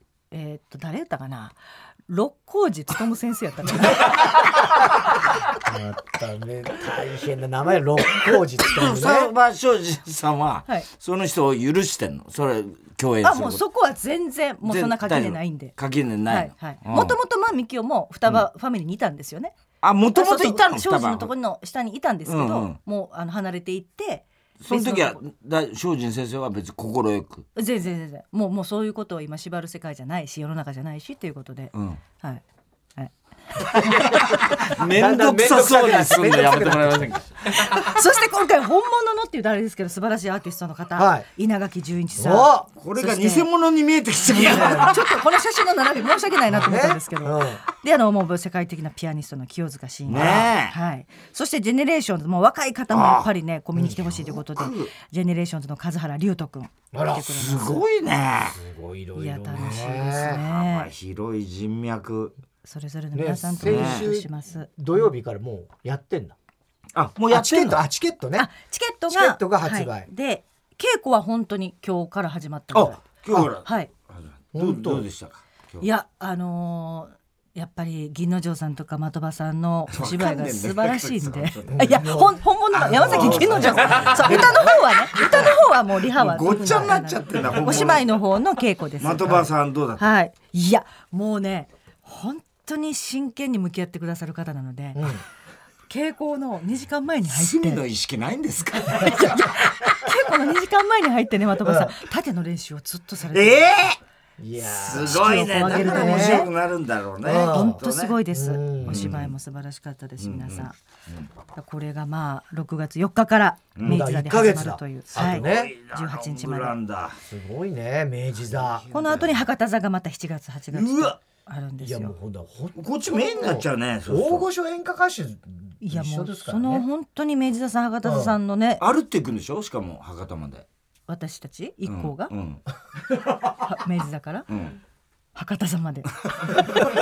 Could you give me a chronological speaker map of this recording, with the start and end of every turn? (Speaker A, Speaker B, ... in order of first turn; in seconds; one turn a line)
Speaker A: 0.3-1.6
Speaker A: 2.1-4.4
Speaker B: 5.5-9.3
Speaker C: 8.6-13.6
Speaker A: 13.2-15.7
Speaker C: 14.6-17.2
Speaker A: 16.3-19.5
Speaker C: 19.8-21.3
Speaker A: 20.1-25.2
Speaker C: 22.2-22.8
Speaker C: 24.6-27.4
Speaker A: 27.5-32.4
Speaker C: 31.7-32.0
Speaker A: 33.0-34.4
Speaker C: 33.8-37.9
Speaker B: 34.1-37.2
Speaker A: 37.6-43.5
Speaker B: 41.0-41.2
Speaker B: 42.1-42.7
Speaker C: 42.8-45.0
Speaker A: 44.3-57.8
Speaker B: 44.3-45.0
Speaker B: 46.5-47.6
Speaker C: 50.1-50.7
Speaker B: 50.1-50.5
Speaker C: 52.9-53.3
Speaker C: 54.0-54.9
Speaker B: 56.9-57.3
Speaker C: 57.3-58.5
Speaker B: 58.5-60.4
Speaker A: 59.1-60.9
Speaker C: 59.8-62.3
Speaker A: 62.6-65.1
Speaker B: 63.1-66.3
Speaker C: 63.6-64.1
Speaker C: 66.9-67.8
Speaker B: 67.3-68.5
Speaker A: 68.3-73.0
Speaker B: 69.1-70.1
Speaker C: 72.7-75.8
Speaker A: 73.6-73.9
Speaker B: 74.5-75.0
Speaker A: 75.8-89.5
Speaker C: 79.9-82.0
Speaker B: 81.7-84.8
Speaker C: 82.8-85.6
Speaker C: 86.1-88.2
Speaker C: 89.0-90.0
Speaker A: 90.0-95.1
Speaker B: 95.0-95.2
Speaker A: 95.9-97.8
Speaker C: 97.3-99.4
Speaker A: 98.9-103.8
Speaker B: 101.6-101.9
Speaker C: 103.3-104.0
Speaker B: 104.4-106.5
Speaker C: 104.7-108.2
Speaker A: 105.0-106.5
Speaker B: 107.2-109.2
Speaker A: 107.3-110.8
Speaker C: 108.8-109.3
Speaker C: 110.2-111.3
Speaker A: 111.5-116.8
Speaker C: 113.8-114.0
Speaker B: 113.8-115.7
Speaker C: 115.1-117.2
Speaker B: 117.3-118.9
Speaker C: 118.6-119.4
Speaker A: 118.9-122.1
Speaker C: 120.7-121.1
Speaker B: 121.8-126.8
Speaker C: 122.8-124.5
Speaker A: 125.8-128.8
Speaker B: 128.0-128.3
Speaker C: 128.8-130.6
Speaker A: 131.1-132.3
Speaker C: 131.9-132.6
Speaker A: 133.6-134.5
Speaker C: 134.5-134.8
Speaker A: 135.3-136.6